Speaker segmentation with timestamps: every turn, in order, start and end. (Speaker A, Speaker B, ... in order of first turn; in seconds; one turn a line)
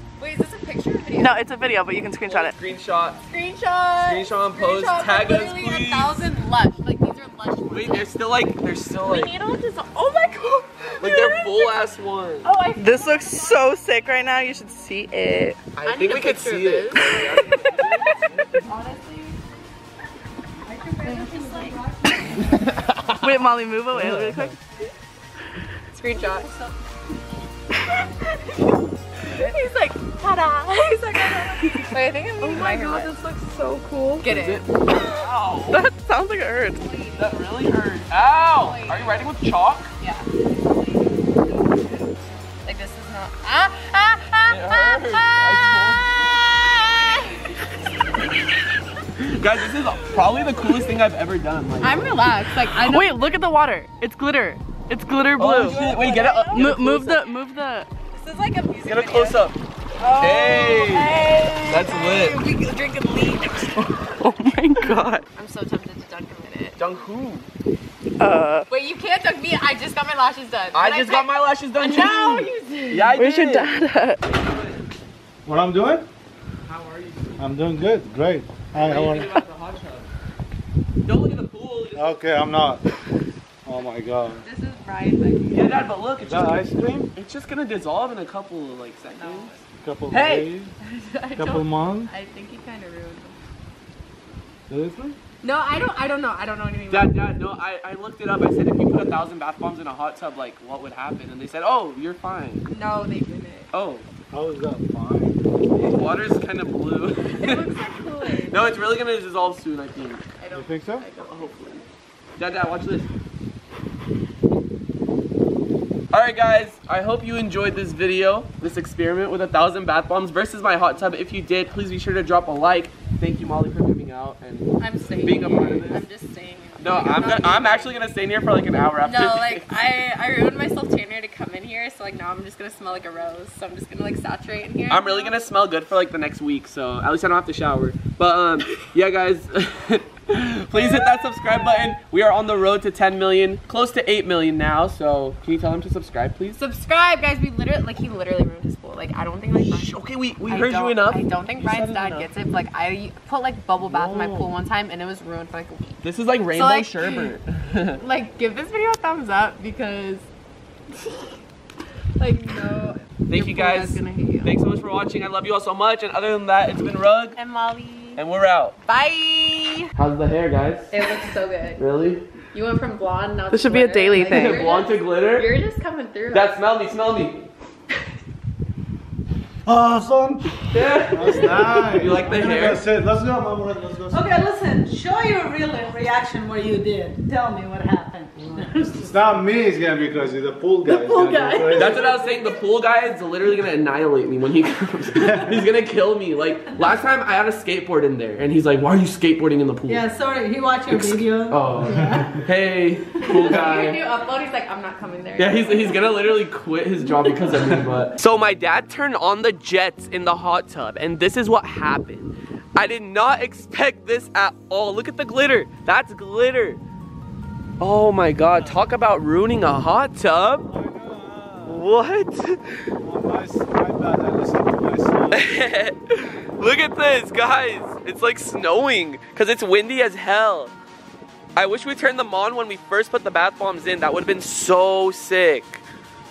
Speaker A: 0.2-1.5
Speaker B: 1.2-2.5
Speaker C: 2.2-3.2
Speaker A: 3.2-8.1
Speaker C: 4.0-6.3
Speaker C: 7.7-9.3
Speaker A: 9.0-11.8
Speaker C: 11.0-12.5
Speaker A: 12.4-13.7
Speaker B: 12.8-15.6
Speaker C: 15.8-18.6
Speaker A: 15.8-19.4
Speaker D: 20.7-22.6
Speaker A: 21.0-22.4
Speaker B: 23.2-24.6
Speaker C: 23.9-24.6
Speaker A: 25.9-26.7
Speaker A: 28.1-33.2
Speaker C: 29.3-29.5
Speaker D: 32.7-34.1
Speaker A: 34.2-35.0
Speaker C: 34.2-35.9
Speaker B: 35.7-36.8
Speaker A: 36.7-37.3
Speaker C: 37.1-39.9
Speaker A: 38.5-39.3
Speaker A: 40.0-41.8
Speaker A: 42.6-47.6
Speaker C: 44.5-46.2
Speaker C: 49.2-52.1
Speaker A: 51.8-53.2
Speaker B: 52.6-55.8
Speaker C: 55.4-56.9
Speaker A: 55.4-57.2
Speaker B: 56.5-57.9
Speaker A: 58.1-59.5
Speaker C: 58.9-59.6
Speaker A: 60.0-64.1
Speaker C: 60.2-62.4
Speaker B: 63.9-65.2
Speaker A: 65.3-66.8
Speaker C: 66.8-67.5
Speaker B: 68.2-68.7
Speaker A: 68.7-73.2
Speaker C: 70.7-74.8
Speaker B: 73.2-74.2
Speaker E: 75.4-76.1
Speaker C: 76.7-77.5
Speaker E: 77.4-79.3
Speaker C: 78.7-80.1
Speaker C: 81.0-82.2
Speaker E: 81.9-82.8
Speaker E: 83.7-84.4
Speaker A: 84.4-85.7
Speaker C: 85.5-89.6
Speaker E: 86.2-87.1
Speaker A: 89.1-89.6
Speaker E: 89.8-90.7
Speaker C: 90.1-90.5
Speaker A: 90.8-93.4
Speaker E: 91.3-92.1
Speaker E: 94.7-95.2
Speaker A: 95.4-97.2
Speaker C: 96.9-102.7
Speaker A: 102.7-103.7
Speaker C: 103.7-104.0
Speaker E: 104.3-105.4
Speaker C: 105.8-107.7
Speaker A: 107.3-108.6
Speaker C: 108.5-110.2
Speaker A: 110.4-111.8
Speaker E: 110.5-111.1
Speaker C: 112.4-113.1
Speaker C: 116.1-126.0
Speaker A: 124.8-128.1
Speaker C: 126.8-129.7
Speaker A: 129.0-135.4
Speaker C: 134.9-146.6
Speaker A: 140.7-141.6
Speaker A: 146.6-157.3
Speaker C: 149.5-152.3
Speaker C: 153.8-154.5
Speaker C: 156.0-158.0
Speaker A: 158.0-160.3
Speaker A: 160.9-161.4
Speaker A: 162.2-164.5
Speaker C: 163.3-167.4
Speaker A: 167.4-168.2
Speaker C: 168.2-168.8
Speaker A: 168.8-169.9
Speaker C: 169.9-171.0
Speaker A: 170.9-171.8
Speaker C: 171.8-172.2
Speaker A: 172.5-176.6
Speaker B: 173.5-174.6
Speaker C: 174.2-175.5
Speaker C: 176.3-177.4
Speaker E: 179.7-184.3
Speaker C: 180.7-182.9
Speaker D: 184.1-189.1
Speaker E: 188.6-192.1
Speaker A: 190.9-192.5
Speaker C: 191.7-200.1
Speaker D: 199.9-202.3
Speaker C: 200.9-204.0
Speaker A: 203.2-206.4
Speaker C: 205.4-216.8
Speaker C: 217.8-220.7
Speaker E: 220.6-221.8
Speaker C: 221.7-222.9
Speaker E: 223.0-225.5
Speaker C: 225.3-230.7
Speaker C: 231.6-235.8